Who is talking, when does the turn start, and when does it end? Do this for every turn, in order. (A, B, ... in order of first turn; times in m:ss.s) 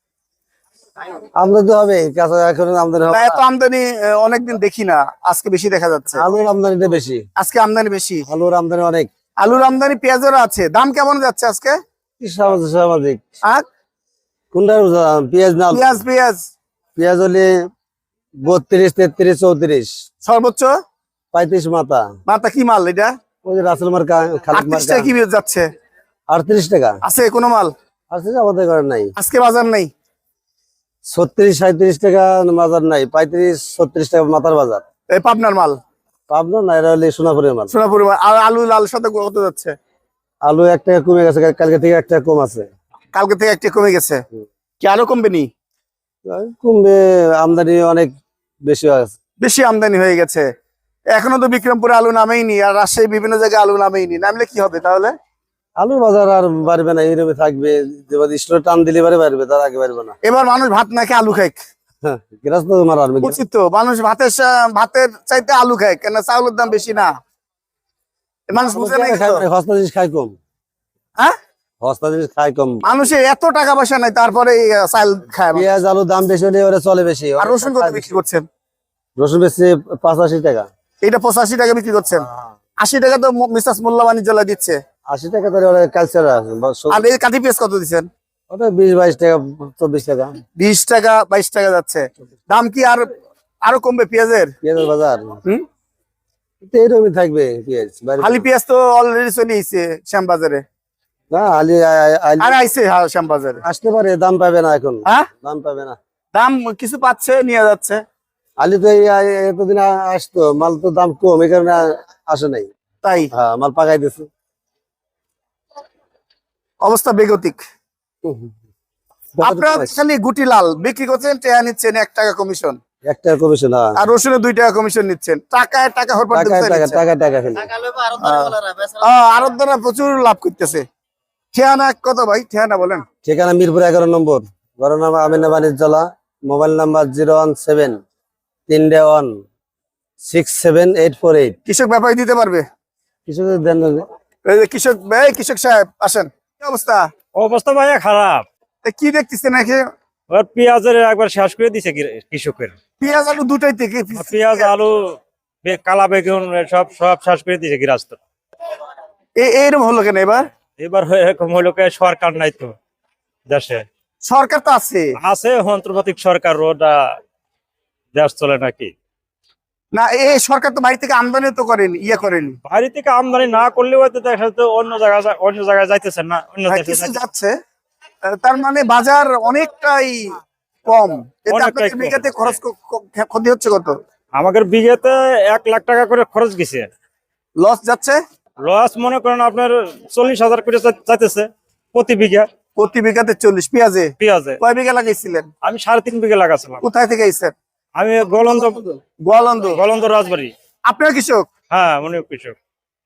0:01.4-0:03.4 A
0:03.1-0:06.2 B
0:06.2-0:07.3 A
0:07.4-0:08.2 B
0:08.3-0:09.1 A
0:09.4-0:11.8 B
0:12.2-0:13.2 A
0:14.5-0:16.0 A
0:15.7-0:16.4 B
0:17.0-0:17.7 A
0:18.4-0:19.9 A
0:20.2-0:20.7 B
0:21.3-0:22.2 A
0:22.3-0:23.1 B
0:23.4-0:25.1 A
0:24.5-0:25.7 B
0:26.3-0:27.0 A
0:27.0-0:27.7 B
0:28.1-0:29.1 A
0:29.2-0:29.9 B
0:31.1-0:34.8 A
0:35.1-0:35.8 B
0:36.3-0:37.7 A
0:37.7-0:39.8 B
0:40.5-0:42.7 A
0:43.1-0:44.2 B
0:44.8-0:45.5 B
0:46.3-0:48.1 A
0:48.7-0:49.2 A
0:49.4-0:50.5 B
0:51.1-0:55.1 B
0:55.8-1:00.2 A
1:00.2-1:01.6 B
1:02.0-1:03.4 A
1:03.2-1:07.1 B
1:08.5-1:09.4 B
1:08.6-1:10.4 A
1:11.8-1:12.8 A
1:12.8-1:15.7 B
1:15.5-1:18.2 A
1:17.4-1:18.4 B
1:19.2-1:20.7 A
1:21.0-1:22.3 B
1:22.8-1:24.8 B
1:25.1-1:27.0 A
1:26.9-1:28.1 B
1:28.5-1:30.4 A
1:30.6-1:33.1 B
1:33.6-1:34.5 B
1:34.6-1:35.4 A
1:36.6-1:38.4 A
1:38.2-1:40.6 B
1:41.3-1:42.6 A
1:42.4-1:43.6 B
1:43.6-1:46.0 A
1:46.4-1:48.0 B
1:48.6-1:52.7 A
1:53.0-1:53.3 B
1:53.3-1:54.3 A
1:56.8-1:57.6 B
1:58.2-1:58.5 A
1:59.4-2:00.0 A
1:59.4-2:02.8 B
2:03.0-2:04.0 A
2:04.0-2:07.0 B
2:06.3-2:07.7 A
2:08.0-2:10.8 B
2:11.5-2:13.0 B
2:13.2-2:18.0 A
2:18.7-2:19.4 A
2:20.2-2:21.6 A
2:21.7-2:22.6 B
2:23.3-2:24.1 A
2:24.5-2:27.1 B
2:27.4-2:28.4 C
2:28.8-2:29.8 B
2:30.3-2:32.7 C
2:33.0-2:34.7 B
2:34.1-2:38.2 C
2:39.4-2:40.4 B
2:40.8-2:42.8 C
2:43.5-2:43.8 C
2:44.2-2:45.2 B
2:45.2-2:47.2 C
2:48.2-2:48.9 C
2:49.9-2:52.6 B
2:52.7-2:57.2 C
2:56.7-2:57.6 B
2:58.2-3:04.0 B
3:01.5-3:02.6 C
3:04.4-3:06.9 C
3:07.6-3:08.2 B
3:08.6-3:12.5 C
3:12.8-3:15.5 B
3:14.2-3:14.6 C
3:15.6-3:16.8 C
3:16.8-3:17.5 B
3:18.0-3:19.0 C
3:19.2-3:19.8 B
3:19.7-3:20.5 C
3:20.9-3:21.5 B
3:21.7-3:22.6 C